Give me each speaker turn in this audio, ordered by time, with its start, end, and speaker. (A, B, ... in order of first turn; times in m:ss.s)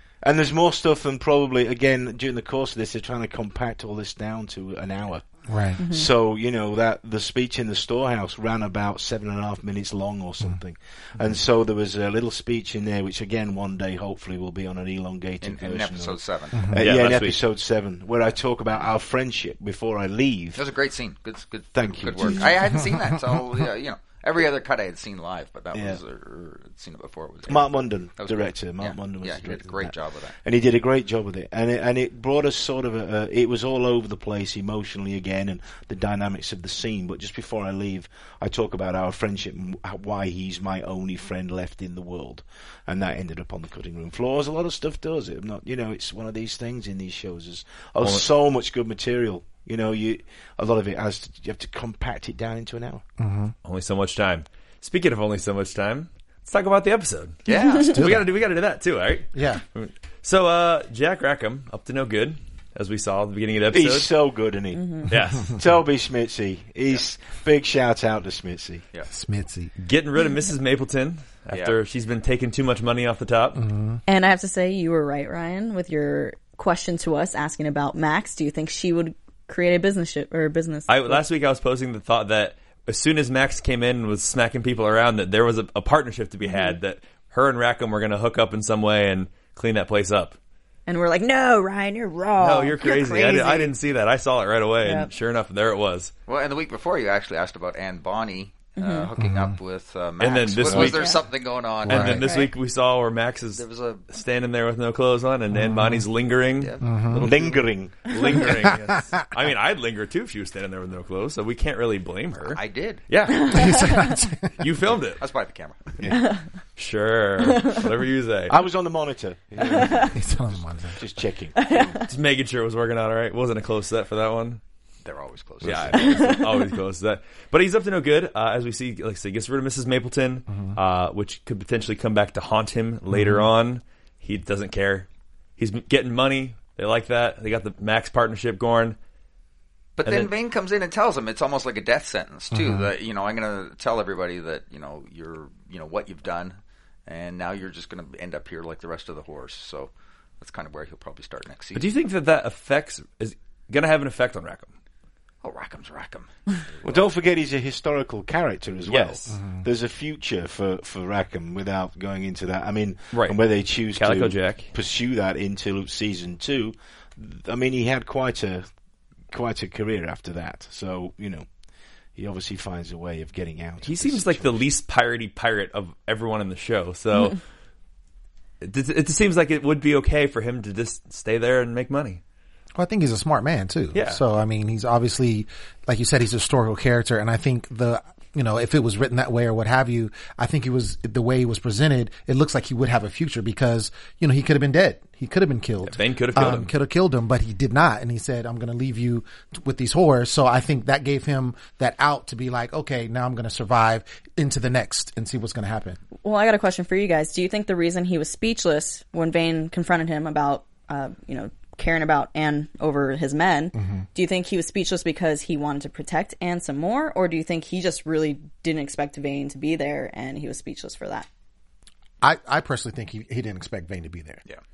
0:00.2-0:20.6 A
0:05.5-0:05.8 B
0:05.8-0:06.1 C
0:15.4-0:16.7 D
0:16.8-0:17.4 E
0:20.5-0:30.3 D
0:21.7-0:23.1 A
0:25.7-0:26.0 A
0:27.5-0:53.0 A
0:48.0-0:48.3 E
0:53.2-0:53.5 B
0:53.6-1:04.1 E
0:57.5-0:58.0 D
0:57.9-0:58.3 B
0:59.3-0:59.6 B
1:03.7-1:08.8 A
1:04.7-1:05.1 C
1:05.1-1:05.6 E
1:09.1-1:09.7 B
1:09.8-1:13.6 E
1:11.5-1:11.8 D
1:13.6-1:14.0 B
1:14.1-1:21.2 C
1:20.9-1:30.4 E
1:26.4-1:26.8 C
1:30.9-1:33.7 C
1:32.4-1:36.1 E
1:34.8-1:35.1 C
1:36.3-1:42.4 D
1:38.8-1:39.1 C
1:39.2-1:39.6 B
1:40.2-1:41.1 E
1:40.7-1:41.1 A
1:41.8-1:53.9 E
1:42.2-1:42.5 C
1:43.5-1:44.0 D
1:45.5-1:46.1 B
1:46.6-1:47.1 D
1:46.8-1:47.3 B
1:47.2-1:48.7 A
1:52.5-1:53.0 D
1:53.3-1:54.0 C
1:53.5-1:54.5 B
1:54.6-1:55.2 E
1:55.2-1:55.9 D
1:56.0-1:56.3 A
1:56.1-1:56.4 C
1:56.8-1:58.6 E
1:58.5-2:02.0 A
1:59.8-2:01.0 B
2:01.6-2:02.0 C
2:02.1-2:04.6 E
2:05.0-2:06.4 D
2:05.6-2:15.1 E
2:05.6-2:05.9 A
2:10.5-2:10.8 B
2:13.1-2:13.4 B
2:15.6-2:19.0 E
2:20.0-2:31.9 D
2:20.0-2:20.3 E
2:22.5-2:22.8 B
2:31.7-2:34.7 E
2:35.4-2:37.1 D
2:36.8-2:48.7 A
2:38.8-2:39.4 E
2:39.3-2:39.6 B
2:43.1-2:44.7 E
2:49.3-2:51.5 A
2:52.2-2:54.6 A
2:53.8-2:57.4 E
2:58.6-3:02.2 E
3:02.7-3:26.0 B
3:03.9-3:04.2 E
3:15.8-3:16.7 E
3:26.2-3:41.3 C
3:33.7-3:34.0 B
3:42.2-3:44.4 B